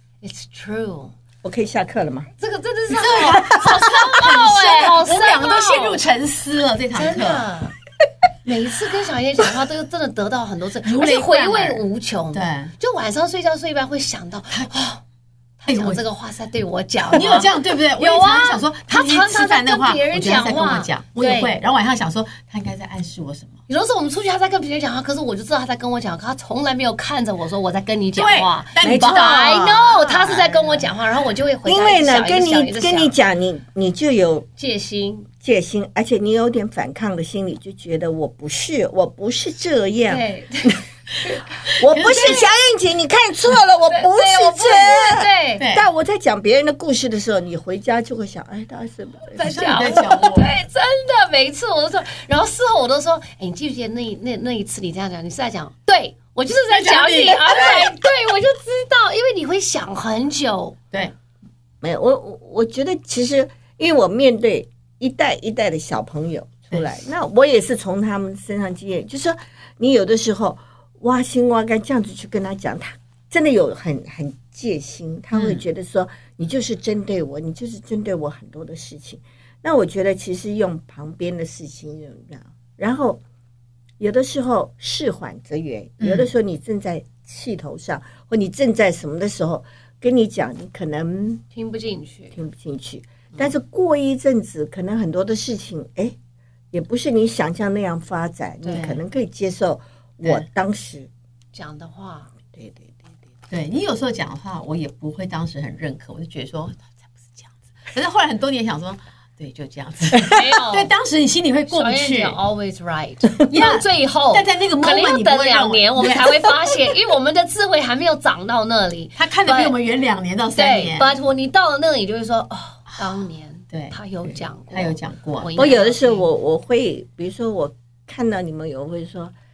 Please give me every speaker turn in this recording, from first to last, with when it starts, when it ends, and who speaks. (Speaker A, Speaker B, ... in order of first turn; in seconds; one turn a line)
Speaker A: 0.2-1.1
Speaker B: 1.4-2.3
Speaker A: 2.4-6.0
Speaker C: 3.0-7.5
Speaker B: 3.1-3.9
Speaker A: 6.9-7.8
Speaker A: 8.4-15.0
Speaker C: 10.8-12.7
Speaker A: 15.6-21.5
Speaker C: 15.7-16.0
Speaker C: 17.1-23.6
Speaker A: 23.7-33.1
Speaker C: 28.2-29.5
Speaker B: 28.8-30.6
Speaker B: 31.6-34.5
Speaker A: 34.6-35.3
Speaker B: 35.4-40.8
Speaker A: 40.1-41.5
Speaker C: 41.7-42.5
Speaker B: 41.7-49.9
Speaker A: 43.9-45.6
Speaker C: 45.6-45.9
Speaker A: 49.4-60.8
Speaker C: 49.4-50.5
Speaker C: 56.7-58.1
Speaker B: 61.8-83.2
Speaker C: 75.3-75.6
Speaker B: 84.0-91.4
Speaker C: 86.0-86.3
Speaker A: 91.5-92.4
Speaker B: 92.3-96.2
Speaker B: 96.7-101.1
Speaker A: 98.6-98.9
Speaker C: 98.7-99.0
Speaker A: 101.5-102.3
Speaker B: 102.5-103.0
Speaker C: 103.5-112.4
Speaker A: 110.2-110.9
Speaker A: 111.7-119.8
Speaker C: 113.5-116.6
Speaker C: 119.2-121.1
Speaker A: 120.5-126.2
Speaker C: 124.7-125.6
Speaker B: 125.6-129.3